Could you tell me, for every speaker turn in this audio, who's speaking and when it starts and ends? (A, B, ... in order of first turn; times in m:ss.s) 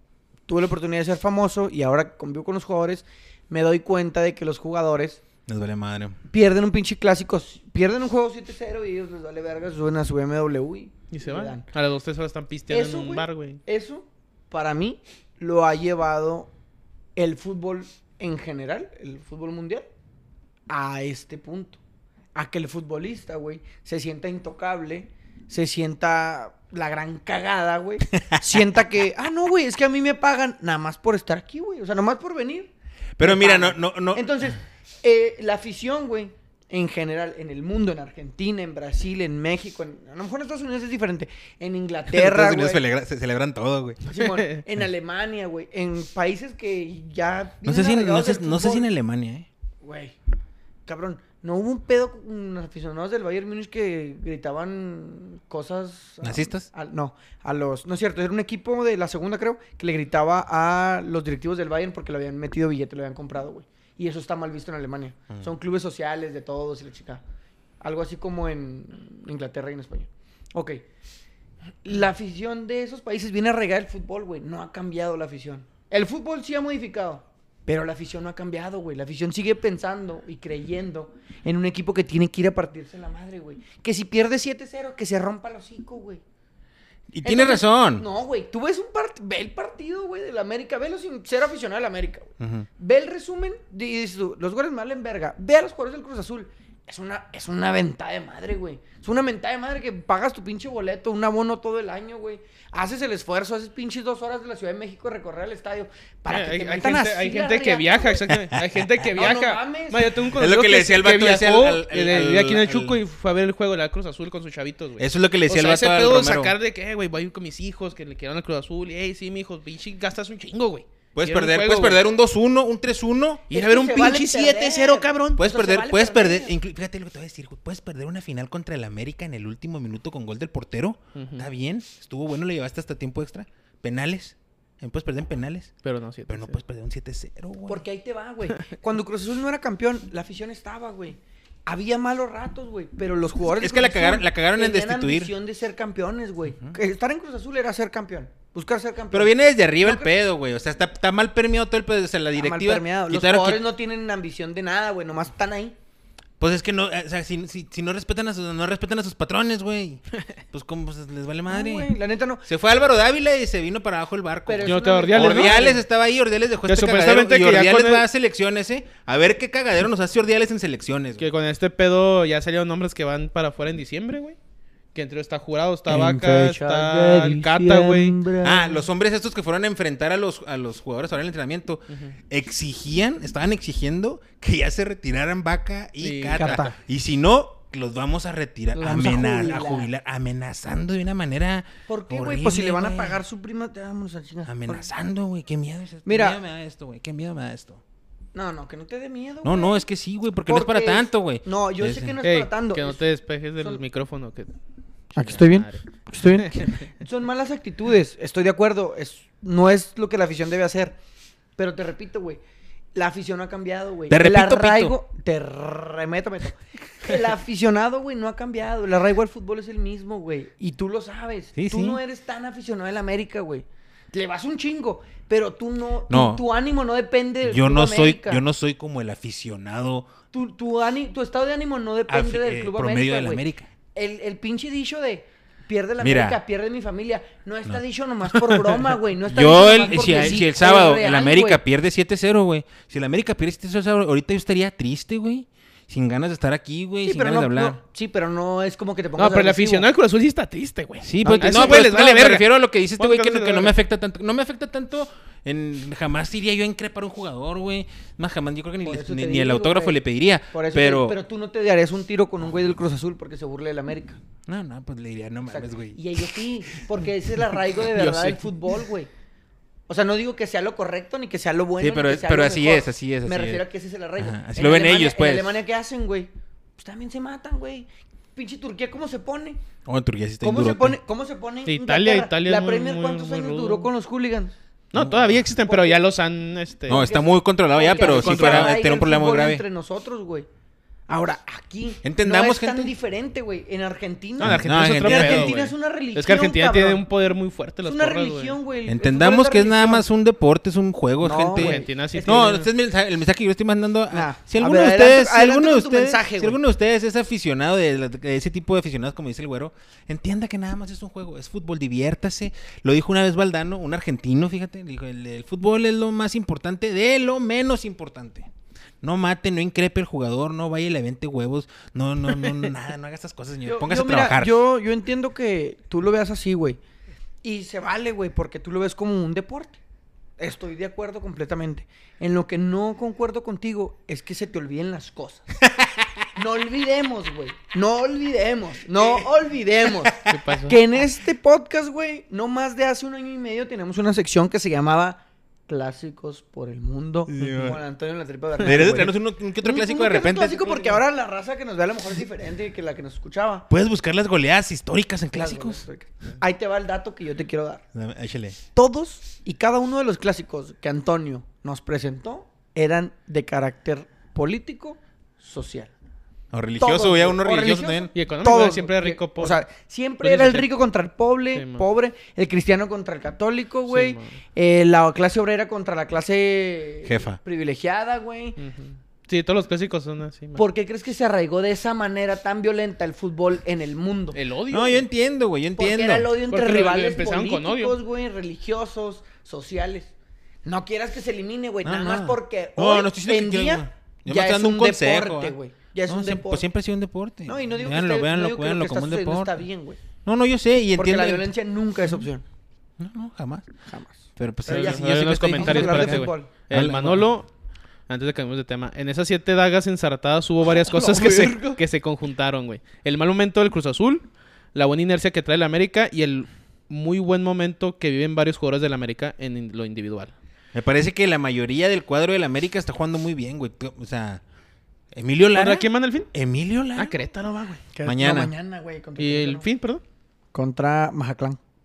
0:00.5-0:05.2 A
0:05.5-0:06.2 B
0:06.3-0:11.6 A
0:11.1-0:13.6 C
0:12.7-0:16.5 A
0:17.2-0:19.9 A
0:20.7-0:21.8 A
0:22.3-0:42.8 A
0:28.3-0:28.6 B
0:33.2-0:34.3 B
0:42.1-0:44.1 B
0:44.1-0:48.8 A
0:47.6-0:49.5 B
0:49.8-0:50.1 A
0:50.9-1:07.2 A
0:56.2-0:56.7 B
1:07.8-1:10.8 A
1:11.8-1:26.2 A
1:27.1-1:28.0 B
1:27.2-1:48.2 A
1:32.4-1:32.7 B
1:46.3-2:02.0 C
1:48.4-1:48.8 B
1:49.1-1:50.1 A
1:50.3-1:53.0 B
1:55.0-1:56.5 B
2:01.1-2:03.4 B
2:03.5-2:05.4 C
2:03.5-2:06.5 A
2:05.4-2:15.7 B
2:11.1-2:11.5 C
2:15.8-2:16.6 C
2:16.3-2:17.8 B
2:17.7-2:30.1 A
2:23.6-2:25.3 B
2:29.1-2:33.6 B
2:32.4-2:35.7 A
2:36.4-2:41.9 B
2:41.5-2:42.4 A
2:42.4-2:51.2 B
2:44.5-2:45.8 A
2:44.6-2:45.7 C
2:46.7-2:48.0 C
2:51.2-2:54.4 C
2:54.9-2:58.2 C
2:55.9-2:58.8 A
2:58.4-3:13.2 B
3:01.9-3:02.1 C
3:06.0-3:06.6 C
3:06.4-3:06.8 A
3:08.7-3:09.9 A
3:11.9-3:14.9 A
3:14.5-3:17.8 B
3:16.0-3:16.4 A
3:18.3-3:19.8 A
3:19.4-3:22.2 B
3:20.4-3:23.0 A
3:22.2-3:24.5 C
3:25.1-3:31.0 A
3:25.2-3:26.8 C
3:31.6-3:32.4 A
3:32.9-3:48.4 A
3:34.1-3:35.0 B
3:41.6-3:42.0 B
3:46.1-3:46.4 B
3:47.4-3:50.1 B
3:50.3-3:53.4 A
3:52.1-3:53.7 B
3:53.9-4:01.6 A
3:56.0-3:56.4 B
3:58.3-4:07.8 B
4:07.0-4:09.9 A
4:09.2-4:13.8 C
4:11.0-4:21.2 B
4:11.2-4:12.0 A
4:18.8-4:20.0 A
4:20.5-4:24.2 A
4:24.5-4:26.4 B
4:25.5-4:29.1 A
4:28.0-4:28.4 C
4:29.9-4:39.6 A
4:31.8-4:33.6 B
4:34.2-4:35.6 B
4:39.8-4:41.0 B
4:40.4-4:44.5 A
4:41.6-4:43.9 C
4:44.9-4:47.1 C
4:44.9-4:45.4 B
4:45.6-4:46.0 A
4:46.9-4:49.6 B
4:46.9-4:50.5 A
4:48.0-4:48.8 C
4:51.1-4:57.0 A
4:52.0-4:52.9 B
4:54.4-4:58.6 C
4:54.4-4:55.6 B
4:57.8-5:00.0 A
4:58.8-5:18.5 B
5:01.2-5:02.7 A
5:01.5-5:02.6 C
5:04.1-5:06.6 A
5:19.0-5:24.6 B
5:23.6-5:26.8 A
5:27.4-5:29.8 A
5:30.4-5:35.5 A
5:35.6-5:36.0 B
5:36.3-5:53.7 A
5:39.0-5:39.2 B
5:40.2-5:40.8 C
5:47.3-5:47.8 B
5:48.6-5:49.0 C
5:48.6-5:51.0 B
5:53.7-5:55.8 B
5:55.3-5:57.8 A
5:57.9-5:58.6 B
5:58.7-6:05.9 A
6:06.5-6:08.1 B
6:06.8-6:18.6 A
6:08.1-6:09.6 C
6:10.2-6:10.7 C
6:11.5-6:11.8 C
6:13.9-6:14.4 C
6:17.0-6:17.4 B
6:18.6-6:20.6 C
6:20.6-6:24.4 A
6:24.3-6:25.0 C
6:24.7-6:26.3 B
6:25.8-6:30.1 A
6:26.5-6:28.0 C
6:30.6-6:36.7 A
6:31.8-6:35.6 B
6:36.1-6:39.6 B
6:37.4-6:40.0 A
6:40.2-6:41.5 B
6:41.0-6:42.4 A
6:43.0-6:43.7 B
6:43.9-6:46.5 A
6:44.4-6:47.3 B
6:44.7-6:47.5 C
6:48.1-7:00.3 C
6:50.8-6:51.8 A
7:00.7-7:04.4 B
7:05.1-7:07.2 B
7:05.5-7:06.3 C
7:07.0-7:07.8 C
7:07.9-7:09.7 A
7:08.0-7:08.5 B
7:09.2-7:10.0 C
7:10.5-7:11.6 A